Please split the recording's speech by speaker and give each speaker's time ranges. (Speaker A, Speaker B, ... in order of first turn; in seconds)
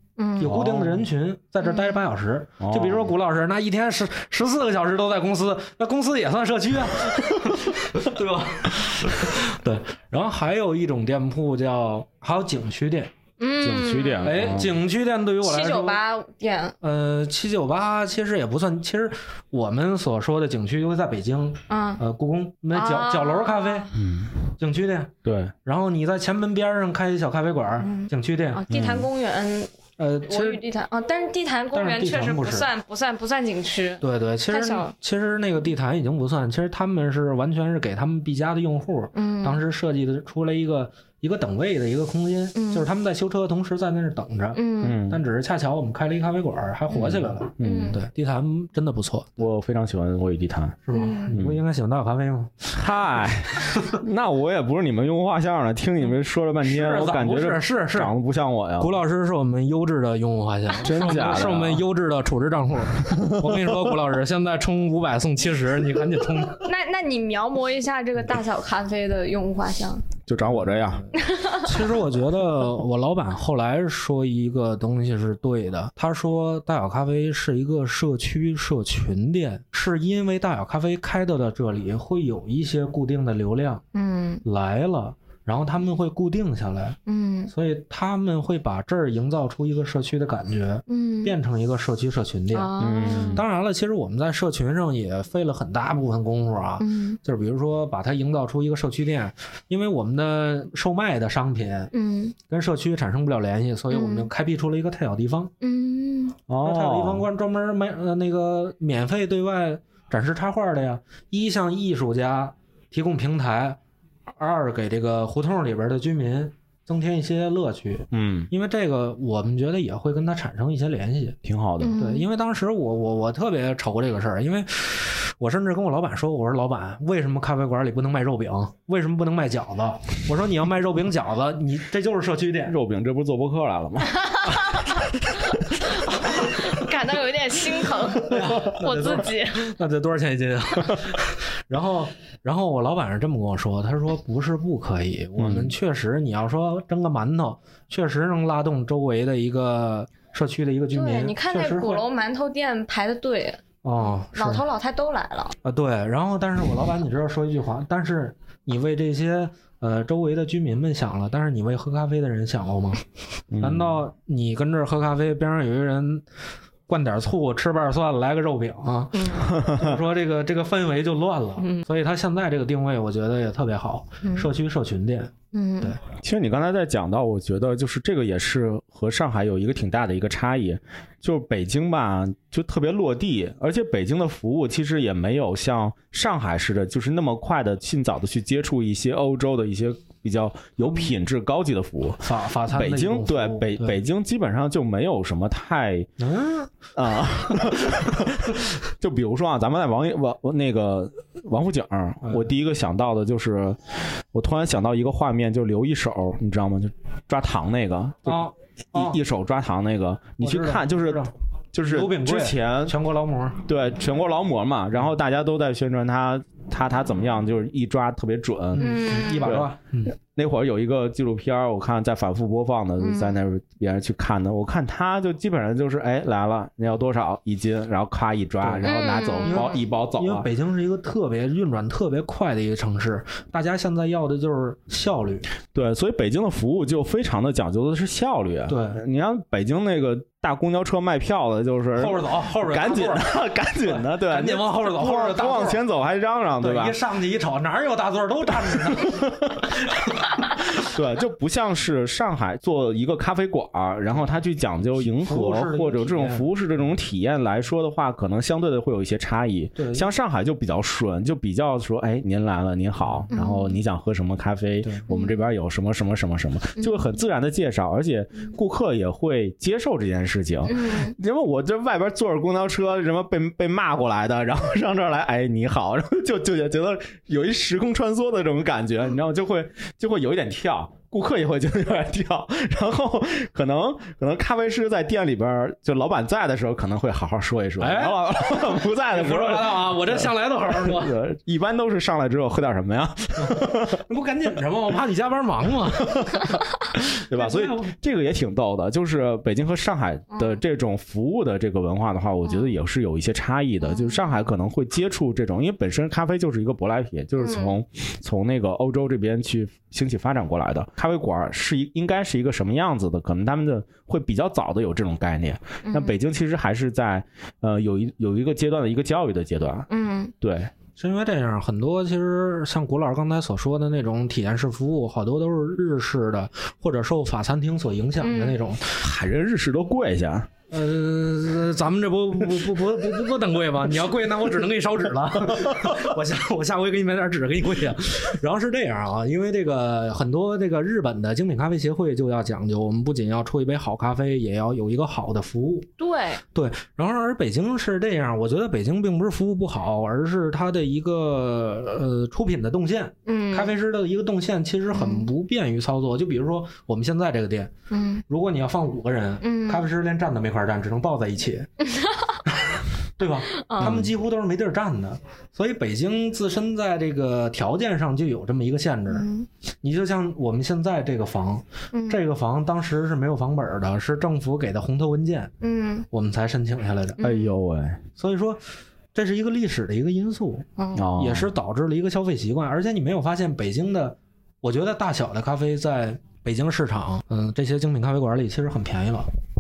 Speaker A: 0.2-0.6, 1.6-2.0, 13.4-14.4, 15.4-16.8, 21.7-22.0, 22.7-23.9, 27.8-29.7, 30.3-34.9, 39.1-39.6, 42.6-42.9, 44.5-45.0, 47.6-48.0, 50.9-51.4, 66.6-70.1, 71.2-71.7, 83.9-84.4, 87.1-87.5, 90.9-91.3, 92.5-93.4, 96.8-97.2, 101.9-102.4, 103.9-104.3, 105.6-106.4, 121.8-122.3, 134.1-135.0, 135.9-139.7, 150.9-155.6, 169.1-169.5, 171.6-171.9, 174.2-174.5, 175.5-175.9, 218.8-219.5, 223.0-223.4, 228.8-229.8, 263.3-263.7, 265.1-265.4, 270.7-271.1, 300.3-300.6, 302.4-302.8, 303.8-304.2, 307.4-307.8, 315.9-316.1, 319.9-320.3, 328.2-328.6, 346.0-346.4, 353.3-353.7, 354.9-355.3, 357.9-358.2, 359.4-359.9, 361.8-362.4, 363.5-364.0, 369.1-369.5, 371.9-372.2, 375.6-376.1, 377.2-377.6, 380.8-381.2
Speaker B: 0.4-13.1, 14.2-16.0, 16.8-23.9, 24.6-28.6, 30.0-30.6, 31.7-32.7, 34.0-49.4, 50.9-53.9, 56.6-58.1, 58.8-66.7, 70.4-83.8, 84.4-87.0, 87.5-92.7, 93.3-101.9, 102.5-105.5, 106.6-113.8, 114.4-121.4, 122.0-132.8, 138.2-152.0, 153.8-154.6, 155.6-163.0, 163.6-166.2, 166.9-176.0, 192.2-194.0, 196.2-196.7, 197.5-197.9, 208.2-209.2, 210.4-211.3, 211.8-213.6, 218.8-220.1, 228.6-235.5, 238.7-239.0, 241.9-245.8, 246.6-250.5, 255.0-256.4, 259.8-260.1, 264.8-265.1, 287.8-291.2, 293.4-297.9, 321.0-328.9, 330.7-345.9, 346.5-357.7, 358.3-361.7, 363.2-369.3, 369.8-375.5, 376.1-377.2, 378.1-378.6, 379.1-389.3
Speaker C: 0.4-1.1, 2.6-3.1, 13.6-14.8, 23.9-24.3, 25.2-25.5, 28.7-29.1, 44.8-45.2, 46.9-47.9, 49.4-51.6, 52.7-59.0, 60.8-61.8, 63.1-63.8, 70.3-71.0, 92.8-93.5, 106.5-107.3, 118.1-118.5, 121.4-121.9, 132.7-135.6, 145.4-145.8, 163.5-164.0, 169.5-170.0, 176.2-196.1, 196.9-212.9, 213.7-219.7, 220.3-230.5, 235.7-246.9, 248.9-249.7, 250.8-294.0, 296.1-296.4, 296.9-319.9, 320.4-320.7, 328.9-330.5, 363.8-364.1, 377.2-378.0, 380.9-381.5